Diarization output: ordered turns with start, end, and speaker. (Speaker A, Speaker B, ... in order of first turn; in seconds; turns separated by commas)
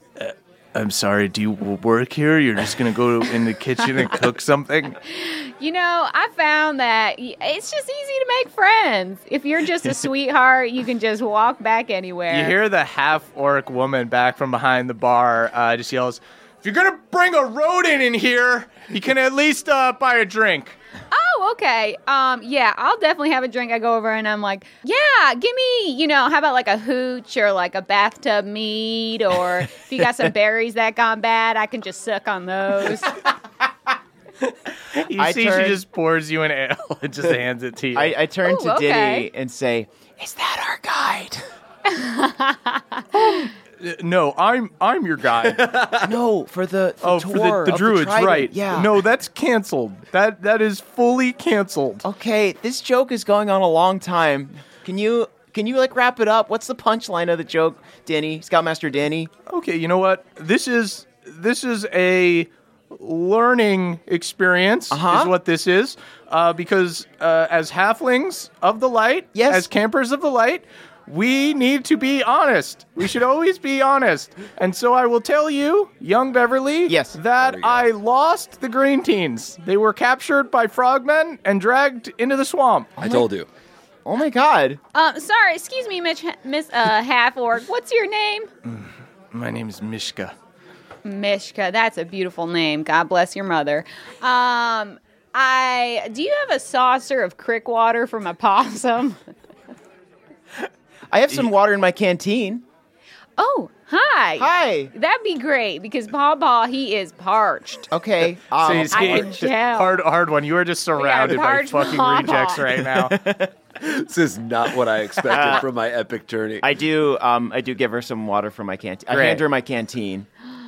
Speaker A: 0.2-5.0, Speaker B: 5.1-12.5, Speaker A: 12.3-20.8, Speaker B: 21.1-33.2, Speaker A: 34.9-38.2, Speaker C: 35.2-35.8, Speaker C: 38.0-41.4, Speaker B: 38.4-39.3, Speaker B: 41.9-43.4, Speaker A: 43.1-45.8, Speaker D: 45.4-46.1, Speaker C: 46.0-49.0, Speaker A: 47.0-52.0, Speaker C: 52.0-59.3, Speaker A: 59.5-83.0, Speaker C: 64.9-65.3, Speaker C: 69.3-69.7, Speaker C: 76.9-77.2, Speaker D: 77.4-77.9, Speaker C: 83.0-83.3, Speaker D: 83.0-83.5, Speaker C: 84.0-84.8, Speaker B: 84.9-88.5, Speaker A: 88.7-90.3, Speaker B: 91.0-99.2, Speaker C: 101.1-102.6, Speaker B: 103.4-107.9, Speaker C: 104.4-104.9, Speaker C: 107.9-109.5, Speaker A: 108.6-113.2, Speaker B: 108.9-110.0, Speaker B: 111.0-112.6, Speaker C: 112.8-113.5, Speaker D: 113.8-116.7, Speaker C: 115.3-115.7, Speaker C: 116.6-120.3, Speaker A: 119.1-119.4